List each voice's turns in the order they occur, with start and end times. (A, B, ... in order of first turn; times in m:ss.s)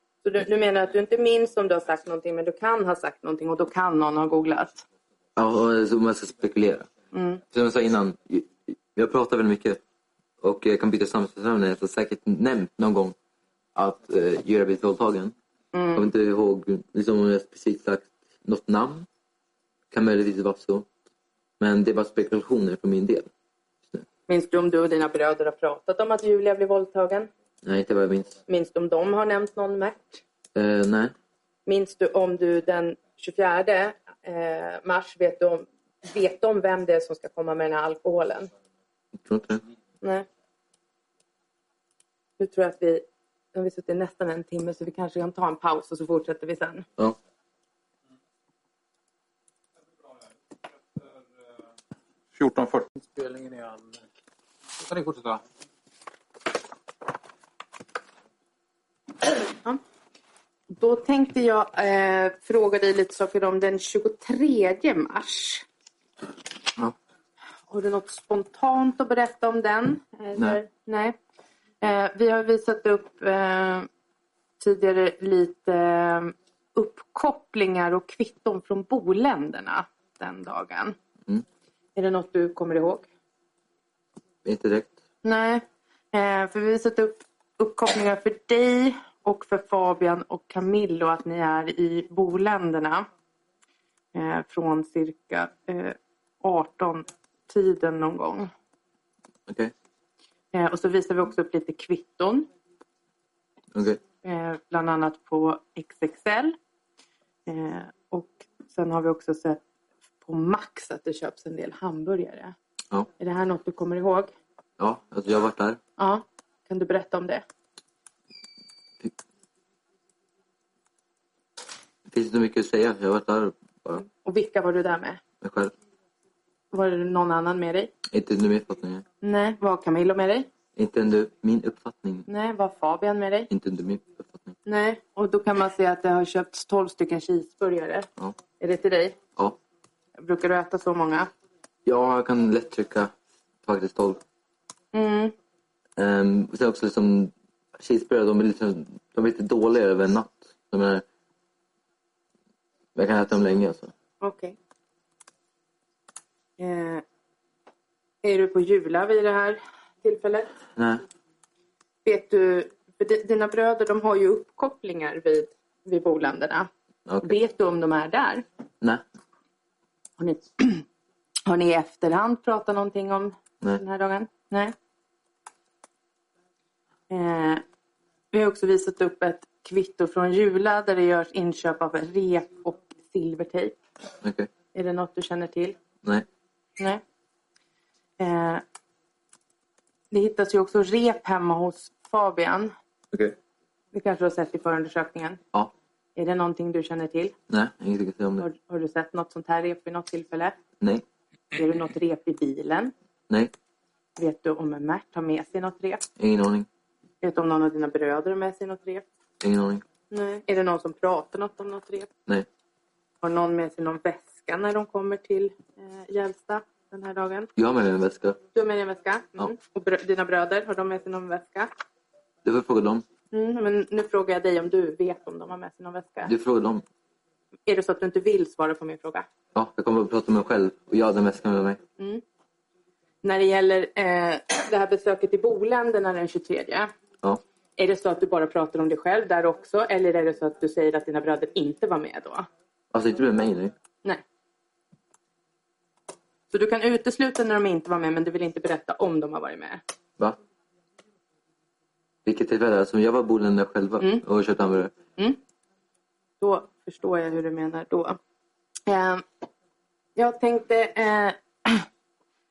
0:00.2-0:04.8 A
0:05.4-0:06.9 B
0:07.1-0:07.4 A
0:07.5-0:09.8 B
0:10.4-0:13.1 B
0:13.7-0:15.3 B
0:15.7-0:16.0 A
0:15.9-0:19.1 B
0:19.9-0:20.9 B
0:21.6-0:23.3 B
0:24.3-0:27.3 A
0:27.6-0:28.4 B
0:28.5-0:30.2 A
0:30.5-0:31.1 B
0:31.6-0:38.5 A
0:39.2-0:39.6 B
0:42.4-0:46.8 A
0:52.3-0:54.0 C
0:54.8-0:55.4 C
1:00.7-1:05.6 A
1:07.7-1:11.2 A
1:10.3-1:10.6 B
1:11.8-1:13.9 A
1:14.6-1:21.0 A
1:22.0-1:23.1 A
1:24.4-1:25.0 B
1:25.2-1:33.1 A
1:34.1-1:38.5 A
1:39.5-1:39.7 B
1:40.5-1:42.5 A
1:43.7-1:44.0 B
1:44.2-1:46.6 A
1:47.5-1:49.6 A
1:50.2-1:52.5 A
1:53.2-1:54.3 A
1:54.8-1:55.8 B
1:56.0-1:57.4 A
2:02.1-2:04.0 B
2:04.0-2:05.2 A
2:05.4-2:05.7 B
2:06.7-2:07.9 A
2:08.1-2:09.0 B
2:09.2-2:10.5 A
2:10.8-2:12.3 B
2:12.3-2:13.5 A
2:13.5-2:14.6 B
2:14.6-2:18.1 A
2:18.6-2:19.2 A
2:20.2-2:21.3 A
2:21.8-2:24.2 B
2:24.9-2:25.3 A
2:26.0-2:31.0 B
2:32.9-2:33.9 B
2:34.2-2:34.6 A
2:36.6-2:37.0 A
2:38.2-2:40.5 A
2:40.8-2:41.0 B
2:42.0-2:46.7 A
2:47.1-2:47.3 B
2:47.2-2:48.4 A
2:50.2-2:50.8 A
2:51.5-2:54.7 A
2:57.1-2:57.6 A
2:58.3-3:03.8 A
3:04.2-3:04.5 B
3:04.7-3:05.8 A
3:08.2-3:08.6 A
3:10.1-3:12.7 A
3:13.9-3:15.4 A
3:16.2-3:17.3 A
3:17.5-3:18.5 B
3:18.4-3:20.6 A
3:21.5-3:22.9 A
3:24.2-3:26.0 A
3:26.2-3:26.7 B
3:27.2-3:29.0 A
3:29.4-3:29.8 B
3:30.1-3:32.1 A
3:33.2-3:37.5 A
3:37.6-3:38.4 B
3:38.5-3:41.7 A
3:42.4-3:43.0 B
3:43.3-3:46.3 A
3:46.2-3:46.8 B
3:47.7-3:49.2 A
3:49.5-3:51.8 B
3:52.0-3:52.2 A
3:53.2-3:56.9 A
3:57.8-4:02.5 A
4:02.9-4:03.7 B
4:06.5-4:09.8 A
4:12.2-4:14.9 B
4:16.4-4:18.2 A
4:18.9-4:19.2 A
4:20.2-4:21.8 A